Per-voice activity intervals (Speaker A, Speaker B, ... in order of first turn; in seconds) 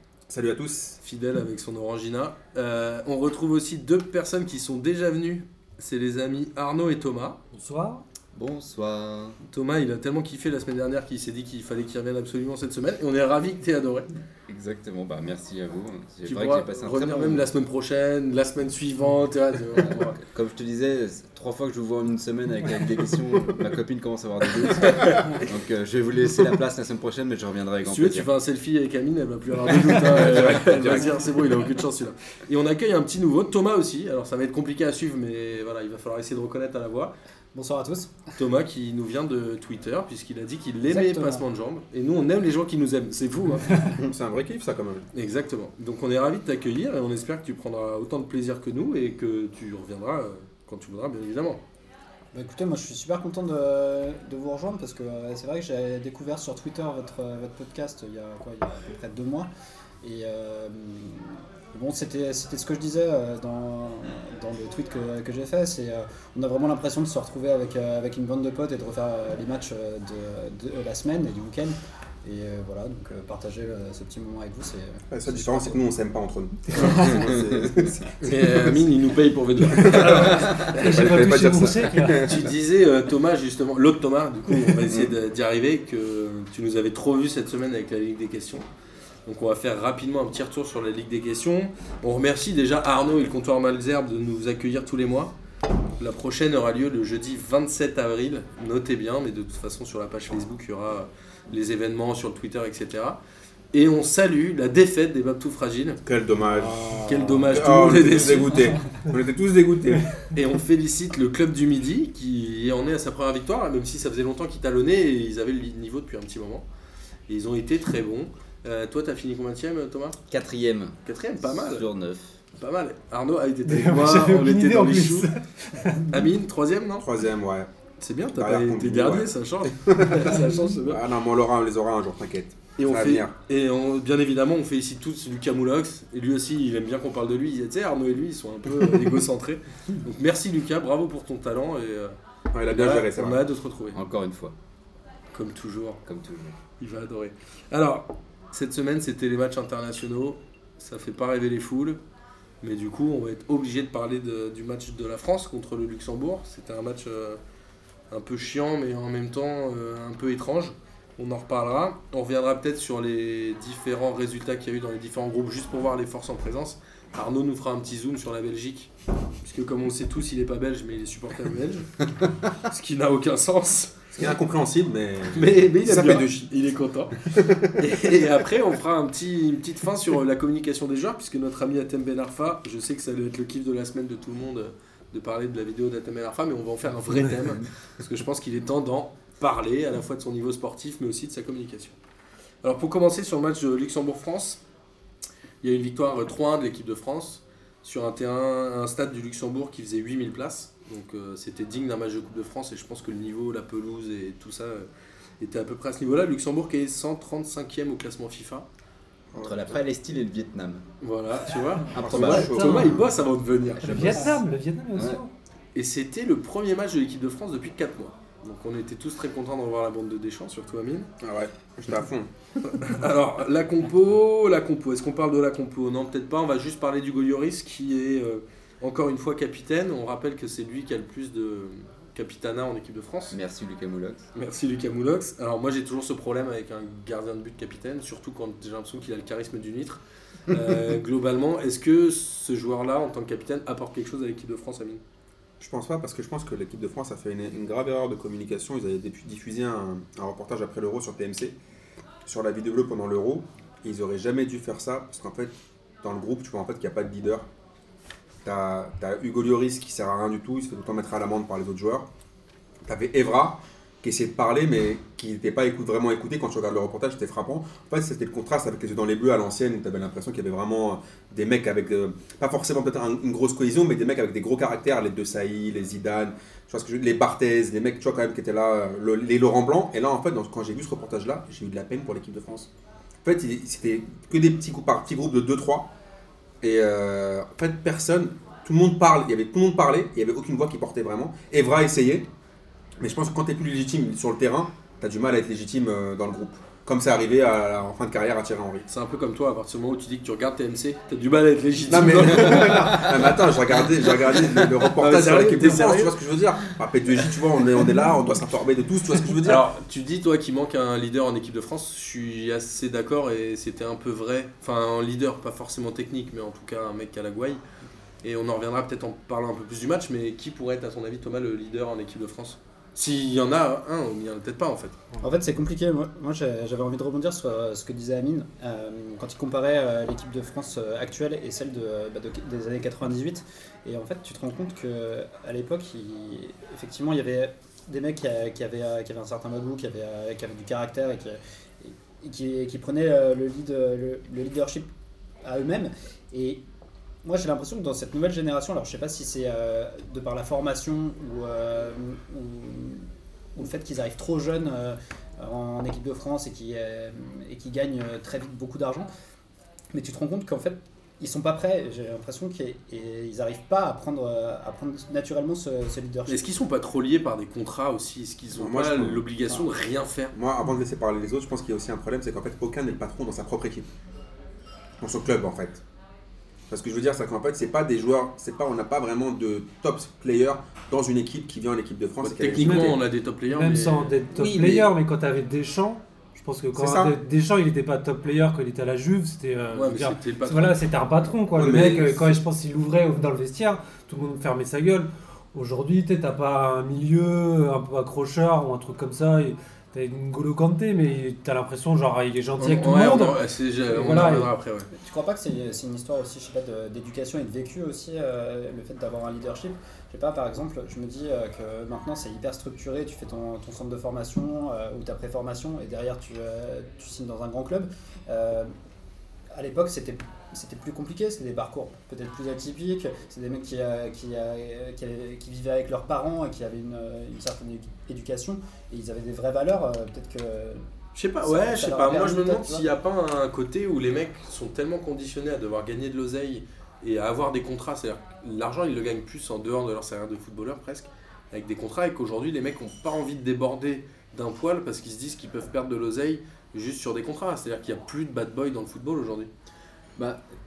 Speaker A: 0.3-1.0, 30.2-31.1, 43.8-45.1, 75.1-78.8, 79.6-82.5, 106.0-110.1, 127.0-127.7, 128.3-133.3, 142.5-143.4, 174.1-176.4, 177.3-177.8, 209.3-209.6, 212.0-213.1, 221.2-222.3, 245.6-251.5, 252.2-257.5, 258.4-262.1, 262.8-282.7, 283.2-285.9, 286.6-292.3, 293.0-298.9, 301.9-309.6, 368.5-369.2, 370.3-373.9, 375.0-375.8, 376.7-383.0, 384.3-384.9, 386.7-387.1, 391.6-392.3
Speaker B: 1.0-7.4, 9.5-14.1, 16.2-20.2, 24.8-25.3, 27.9-37.1, 38.4-43.8, 45.1-51.6, 78.2-81.0, 82.2-88.6, 89.2-95.3, 96.0-103.2, 103.7-106.0, 106.9-108.7, 110.3-116.7, 117.3-120.2, 121.0-121.9, 122.5-125.3, 126.1-127.1, 128.0-131.0, 132.8-142.1, 142.7-144.0, 145.3-146.0, 146.8-152.0, 152.6-157.4, 158.1-168.9, 169.4-171.9, 172.6-174.0, 175.3-177.2, 177.7-192.0, 192.6-194.6, 195.6-204.9, 205.4-208.7, 211.0-214.3, 215.7-221.1, 222.6-233.4, 234.3-245.0, 298.9-303.1, 304.9-306.1, 309.4-317.6, 318.2-324.9, 366.3-370.3, 382.2-384.2, 389.7-390.8, 402.6-404.9, 431.1-449.5
Speaker C: 7.5-8.0, 79.9-82.3, 123.7-126.3, 212.6-212.9, 213.8-215.3, 383.5-404.5
Speaker D: 8.3-9.4, 14.5-17.5, 20.2-28.3, 30.0-31.1, 120.3-122.3, 143.9-144.5, 146.1-146.6, 209.3-210.8, 211.9-212.8, 213.8-214.2, 214.9-215.2, 233.3-234.2, 302.7-303.1, 450.1-450.4
Speaker E: 37.5-38.1, 40.9-41.4, 52.3-59.5, 60.0-75.8, 76.7-77.4, 325.2-344.9, 345.4-346.6, 347.2-359.1, 359.9-366.4, 405.0-418.7, 419.5-430.8, 431.4-432.9